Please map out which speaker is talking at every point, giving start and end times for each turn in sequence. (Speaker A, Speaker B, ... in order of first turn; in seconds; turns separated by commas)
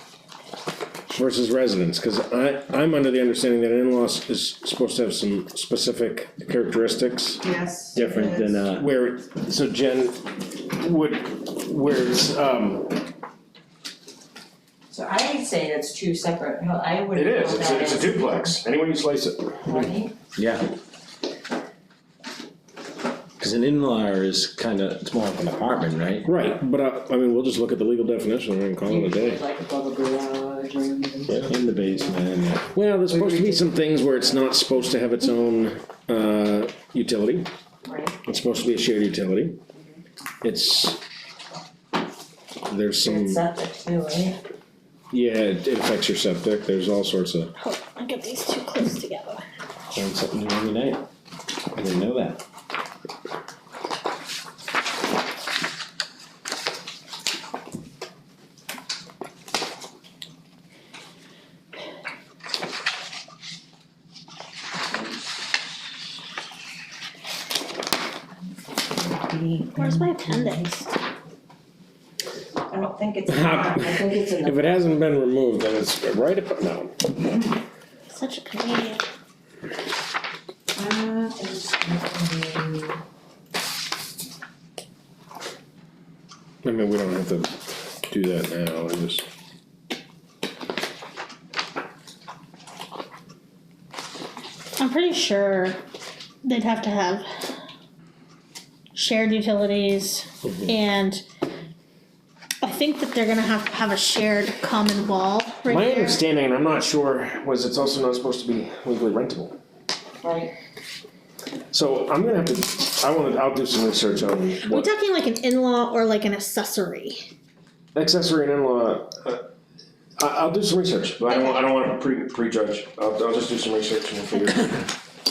Speaker A: 1.1-7.4, Speaker B: 7.4-8.6, Speaker A: 7.9-13.0, Speaker C: 8.2-8.8, Speaker B: 14.9-18.3, Speaker A: 17.1-19.8, Speaker B: 19.6-20.1, Speaker C: 20.4-20.6, Speaker C: 23.4-26.3, Speaker A: 26.2-29.4, Speaker B: 28.8-32.2, Speaker C: 31.5-32.7, Speaker A: 32.7-37.5, Speaker B: 33.1-33.7, Speaker B: 37.8-38.2, Speaker A: 38.2-39.6, Speaker A: 40.4-41.0, Speaker A: 42.7-43.4, Speaker B: 43.0-44.4, Speaker A: 45.1-47.5, Speaker D: 47.6-49.4, Speaker C: 49.9-51.1, Speaker C: 51.8-52.4, Speaker B: 68.7-70.8, Speaker D: 69.8-70.9, Speaker B: 72.7-75.0, Speaker A: 73.3-77.1, Speaker D: 78.1-79.0, Speaker B: 80.8-83.0, Speaker A: 86.6-89.2, Speaker D: 94.8-95.8, Speaker D: 96.4-97.5, Speaker D: 98.9-101.2, Speaker D: 102.6-106.2, Speaker A: 105.7-109.6, Speaker B: 110.2-110.5, Speaker A: 111.7-114.9, Speaker D: 114.6-117.3, Speaker A: 117.9-119.4, Speaker A: 120.2-124.9, Speaker D: 121.3-121.6